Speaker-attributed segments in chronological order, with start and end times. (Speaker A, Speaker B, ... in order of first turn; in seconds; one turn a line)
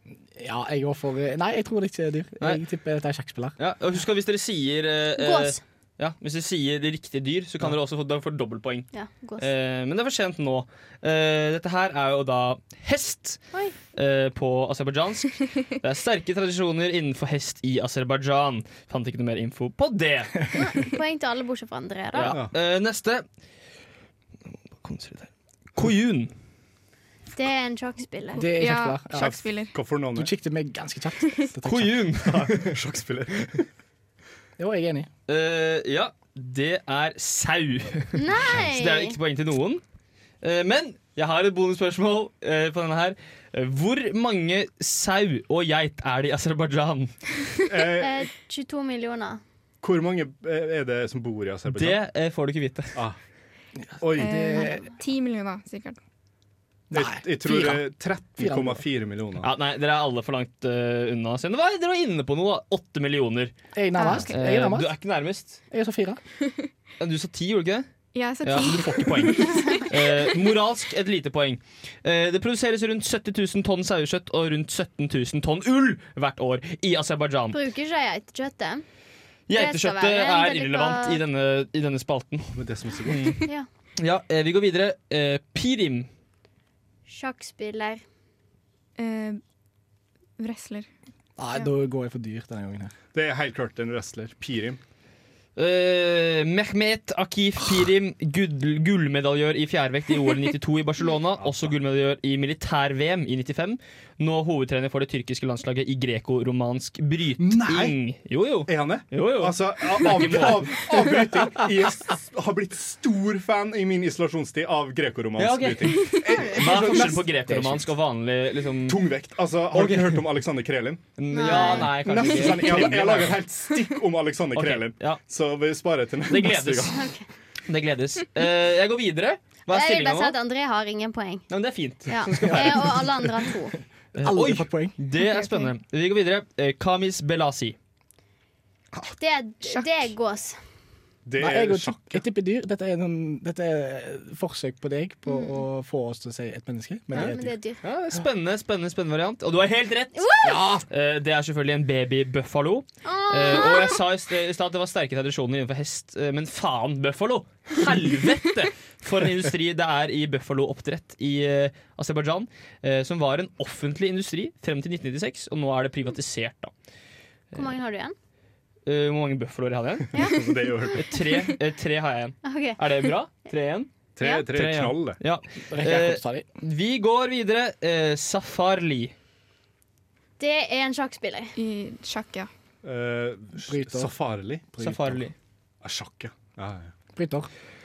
Speaker A: 0.4-3.5
Speaker B: 3.6-13.4
Speaker C: 5.2-5.6
Speaker C: 8.9-9.5
Speaker B: 13.9-20.4
Speaker C: 20.5-22.4
Speaker B: 22.1-23.2
Speaker D: 22.2-22.5
Speaker B: 24.8-26.3
Speaker C: 27.4-28.4
Speaker A: 28.3-29.5
Speaker E: 28.4-29.7
Speaker D: 29.1-30.3
Speaker A: 30.1-32.1
Speaker B: 31.6-32.8
Speaker D: 32.1-33.7
Speaker A: 34.6-35.1
Speaker B: 35.3-39.8
Speaker C: 38.1-39.1
Speaker B: 40.4-47.1
Speaker D: 47.6-48.3
Speaker C: 48.0-49.4
Speaker D: 49.8-52.0
Speaker B: 51.7-53.0
Speaker D: 54.0-54.6
Speaker A: 54.0-54.9
Speaker E: 54.2-56.0
Speaker D: 56.9-59.5
Speaker A: 56.9-57.8
Speaker A: 58.4-58.9
Speaker B: 59.4-63.5
Speaker A: 63.7-64.9
Speaker E: 64.0-64.3
Speaker B: 64.3-65.6
Speaker A: 65.7-66.2
Speaker B: 67.0-67.9
Speaker E: 68.1-70.3
Speaker B: 68.4-77.6
Speaker C: 77.5-78.8
Speaker B: 79.5-83.4
Speaker C: 79.5-81.2
Speaker D: 82.5-83.4
Speaker B: 84.0-86.1
Speaker C: 87.1-88.0
Speaker E: 89.0-89.4
Speaker E: 90.4-90.9
Speaker A: 91.4-92.9
Speaker D: 93.1-94.8
Speaker B: 95.5-110.8
Speaker D: 101.4-101.8
Speaker D: 107.4-108.0
Speaker D: 108.7-117.2
Speaker B: 115.4-119.0
Speaker A: 116.5-117.9
Speaker D: 118.8-121.7
Speaker B: 119.7-120.3
Speaker B: 121.2-123.4
Speaker C: 121.3-122.2
Speaker D: 122.2-127.1
Speaker B: 124.5-125.2
Speaker B: 126.3-127.1
Speaker C: 126.9-127.2
Speaker B: 127.7-130.3
Speaker C: 129.7-131.4
Speaker B: 131.5-133.2
Speaker C: 132.1-133.7
Speaker A: 132.4-132.8
Speaker B: 134.1-137.8
Speaker A: 134.2-134.9
Speaker E: 135.2-135.7
Speaker C: 139.2-140.6
Speaker E: 139.6-140.1
Speaker D: 141.2-142.2
Speaker A: 141.4-147.5
Speaker C: 145.2-145.6
Speaker C: 147.1-147.8
Speaker B: 147.2-166.7
Speaker C: 150.2-150.6
Speaker A: 150.4-150.8
Speaker C: 153.0-154.0
Speaker C: 167.5-168.1
Speaker B: 168.8-170.3
Speaker C: 170.1-171.0
Speaker D: 170.1-171.1
Speaker B: 170.9-173.9
Speaker C: 172.4-172.8
Speaker D: 174.2-175.2
Speaker C: 174.2-174.4
Speaker B: 174.5-179.1
Speaker A: 175.7-176.4
Speaker C: 180.4-181.5
Speaker E: 181.6-182.5
Speaker D: 182.8-184.8
Speaker A: 183.7-184.1
Speaker A: 184.7-185.2
Speaker B: 184.8-185.3
Speaker D: 185.8-186.9
Speaker A: 187.2-187.5